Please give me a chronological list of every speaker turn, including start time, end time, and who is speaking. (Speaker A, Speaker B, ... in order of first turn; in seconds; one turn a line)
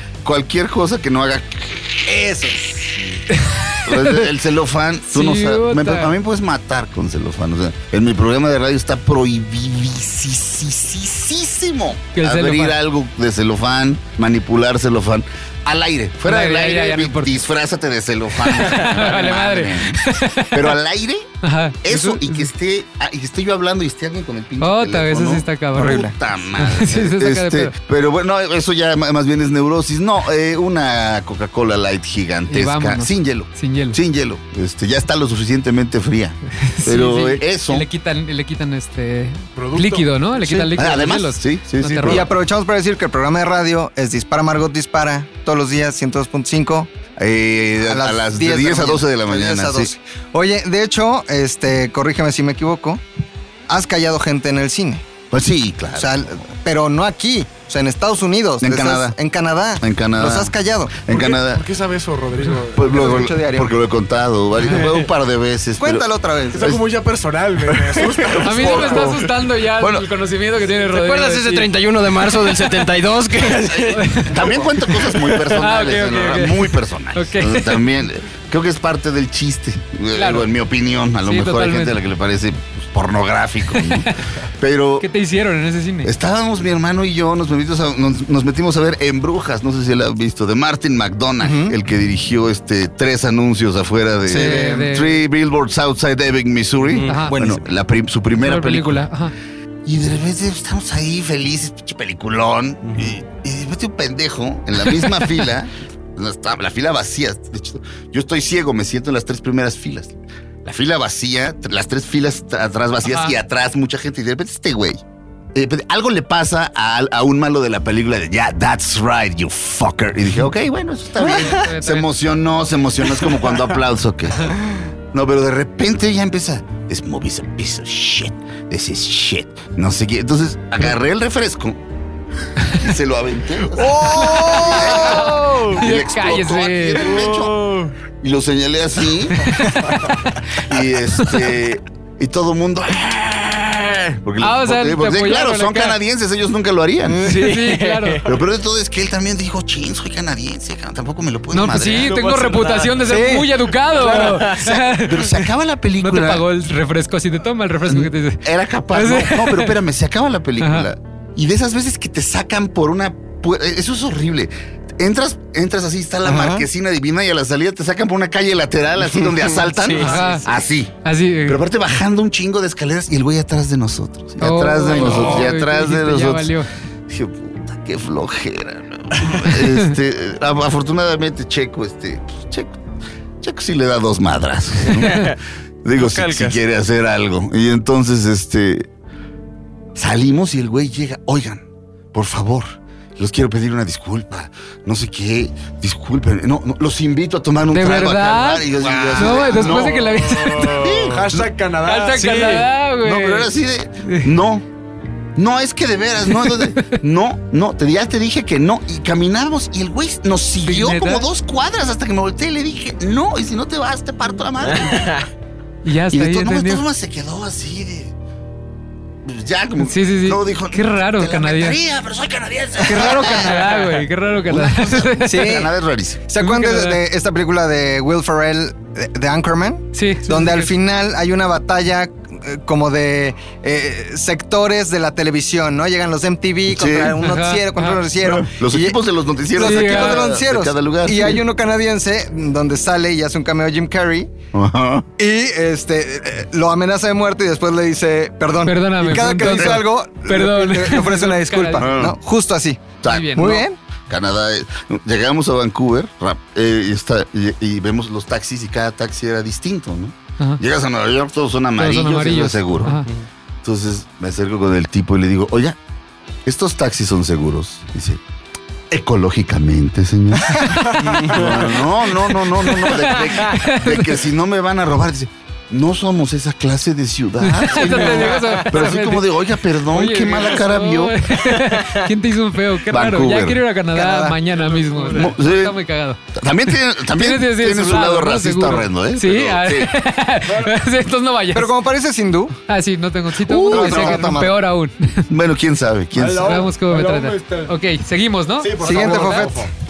Speaker A: 0.2-3.0
Speaker B: 2.1-2.8
Speaker C: 3.3-4.3
Speaker A: 3.9-21.3
Speaker C: 5.1-6.1
Speaker C: 12.2-12.8
Speaker C: 16.3-17.4
Speaker C: 18.4-20.7
Speaker C: 21.4-22.5
Speaker A: 21.8-37.9
Speaker C: 24.6-27.7
Speaker B: 25.8-26.1
Speaker C: 32.5-34.0
Speaker C: 36.6-42.3
Speaker D: 39.5-40.2
Speaker A: 40.5-42.3
Speaker B: 42.0-46.9
Speaker A: 47.2-49.9
Speaker B: 47.8-53.0
Speaker B: 53.7-55.0
Speaker A: 55.3-56.1
Speaker B: 55.9-61.0
Speaker A: 58.6-59.1
Speaker A: 59.8-60.5
Speaker A: 61.0-61.6
Speaker D: 61.1-63.3
Speaker A: 62.7-66.1
Speaker B: 62.8-63.8
Speaker B: 65.8-66.8
Speaker D: 66.5-69.1
Speaker A: 67.9-69.2
Speaker C: 68.4-71.7
Speaker A: 69.8-70.1
Speaker E: 70.9-74.5
Speaker C: 73.9-74.4
Speaker A: 74.2-85.1
Speaker C: 75.3-77.8
Speaker C: 80.1-80.5
Speaker C: 81.2-82.0
Speaker C: 83.7-84.0
Speaker C: 85.0-86.1
Speaker A: 86.0-99.1
Speaker B: 91.4-91.7
Speaker B: 94.3-94.9
Speaker C: 94.3-95.2
Speaker E: 96.9-97.2
Speaker C: 97.1-97.3
Speaker B: 97.3-97.6
Speaker C: 98.4-99.3
Speaker A: 99.8-115.0
Speaker E: 102.9-103.1
Speaker C: 113.1-113.3
Speaker A: 115.5-124.6
Speaker C: 121.2-122.1
Speaker A: 125.1-131.8
Speaker A: 132.6-137.6
Speaker B: 133.9-135.6
Speaker C: 134.2-137.2
Speaker E: 137.2-137.9
Speaker A: 138.2-139.7
Speaker A: 140.6-147.3
Speaker C: 144.4-146.0
Speaker C: 147.2-148.2
Speaker E: 147.2-148.3
Speaker A: 148.3-152.2
Speaker C: 151.5-155.4
Speaker E: 151.8-153.2
Speaker B: 153.1-153.5
Speaker E: 154.0-154.8
Speaker A: 154.0-156.5
Speaker C: 156.0-159.8
Speaker A: 157.9-170.9
Speaker C: 160.6-160.9
Speaker B: 166.2-166.7
Speaker E: 169.3-170.4
Speaker C: 169.9-170.4
Speaker C: 171.0-171.6
Speaker A: 171.4-176.5
Speaker C: 174.4-176.7
Speaker E: 175.1-175.4
Speaker A: 177.1-182.8
Speaker C: 179.6-179.9
Speaker A: 183.4-188.9
Speaker E: 184.9-185.4
Speaker E: 186.0-186.6
Speaker A: 189.9-200.0
Speaker C: 197.7-200.8
Speaker D: 198.9-202.7
Speaker E: 200.5-201.1
Speaker A: 200.7-201.5
Speaker C: 201.8-203.5
Speaker E: 202.2-202.6
Speaker A: 203.0-204.7
Speaker C: 204.0-204.3
Speaker A: 205.4-215.2
Speaker C: 206.3-207.0
Speaker C: 210.7-211.3
Speaker E: 214.7-215.3
Speaker C: 215.8-216.8
Speaker A: 216.1-218.1
Speaker A: 219.2-223.6
Speaker C: 219.8-221.8
Speaker C: 222.9-225.6
Speaker B: 222.9-223.6
Speaker A: 224.5-226.2
Speaker B: 225.3-225.7
Speaker B: 226.3-239.0
Speaker C: 226.4-227.0
Speaker C: 229.9-230.7
Speaker A: 236.7-237.2
Speaker C: 237.2-238.0
Speaker A: 238.2-241.4
Speaker B: 239.5-244.3
Speaker C: 239.6-240.3
Speaker A: 244.5-245.1
Speaker B: 245.2-253.8
Speaker C: 248.7-251.9
Speaker A: 251.8-252.2
Speaker A: 253.0-263.0
Speaker C: 253.1-253.7
Speaker C: 261.8-263.1
Speaker A: 263.6-265.8
Speaker A: 266.4-268.2
Speaker A: 268.9-281.2
Speaker B: 270.5-271.4
Speaker C: 270.8-271.2
Speaker C: 272.1-274.2
Speaker C: 277.4-279.3
Speaker C: 279.8-286.2
Speaker E: 281.7-282.0
Speaker A: 282.9-283.6
Speaker B: 283.9-284.4
Speaker D: 284.6-285.3
Speaker A: 285.1-285.8
Speaker A: 286.3-289.9
Speaker C: 287.0-291.7
Speaker D: 290.5-290.8
Speaker B: 291.5-292.6
Speaker C: 292.7-295.3
Speaker A: 293.4-294.6
Speaker B: 293.7-294.5
Speaker A: 295.3-296.6
Speaker D: 296.2-297.8
Speaker C: 296.4-299.4
Speaker D: 298.6-299.7
Speaker B: 298.8-299.6